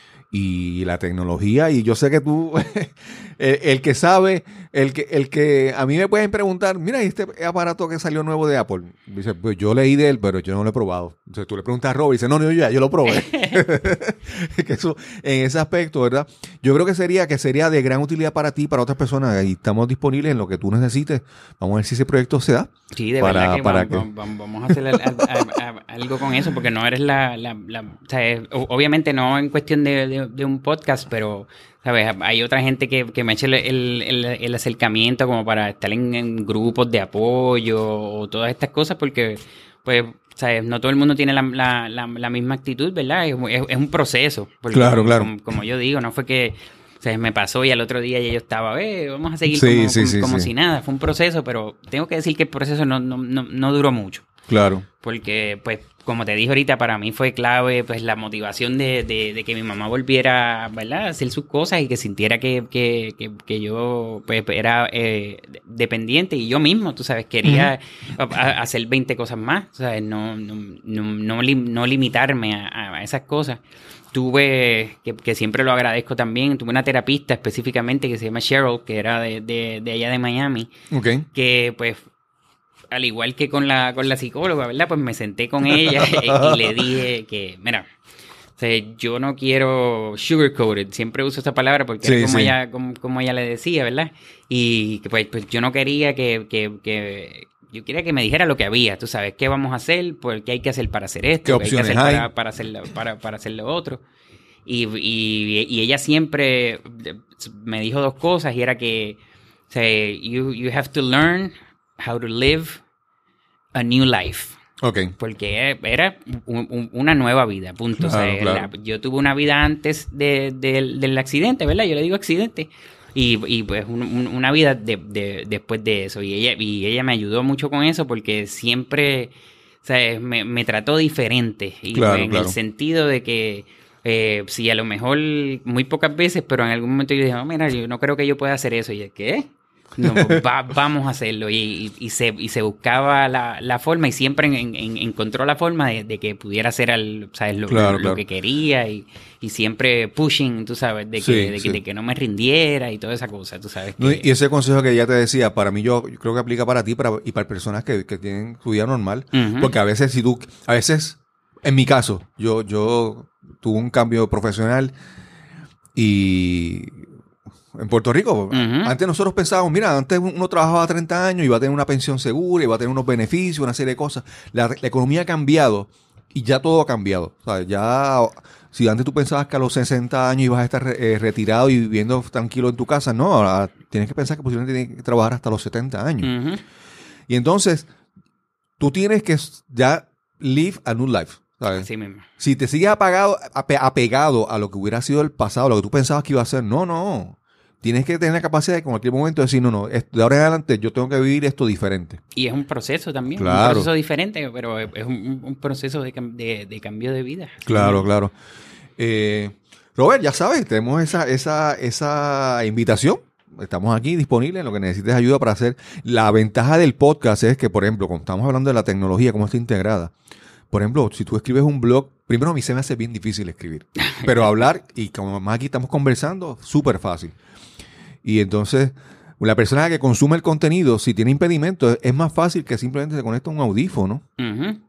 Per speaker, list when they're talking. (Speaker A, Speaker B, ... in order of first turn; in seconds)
Speaker A: 0.3-24.1, 44.7-45.3, 49.5-50.5, 54.5-54.9, 67.4-67.7, 80.9-81.3, 85.7-86.9, 92.0-92.5, 101.4-102.3, 114.8-115.1, 118.0-118.7, 131.9-132.6, 140.0-140.4, 147.7-148.2, 151.2-151.8, 154.0-164.9, 165.9-167.1, 167.8-186.3, 187.3-187.9, 188.8-191.9, 192.4-202.2, 203.4-203.9, 207.7-208.3, 209.0-220.1, 220.7-227.3, 228.2-234.2
Speaker B: 13.1-13.6, 22.9-54.3, 55.0-73.6, 74.1-80.7, 81.3-82.0, 82.9-87.8, 88.6-104.0, 104.7-112.8, 113.8-114.6, 115.2-154.3, 159.3-159.7, 168.5-168.9, 186.2-186.6, 191.7-192.3, 202.3-208.1, 234.4-234.8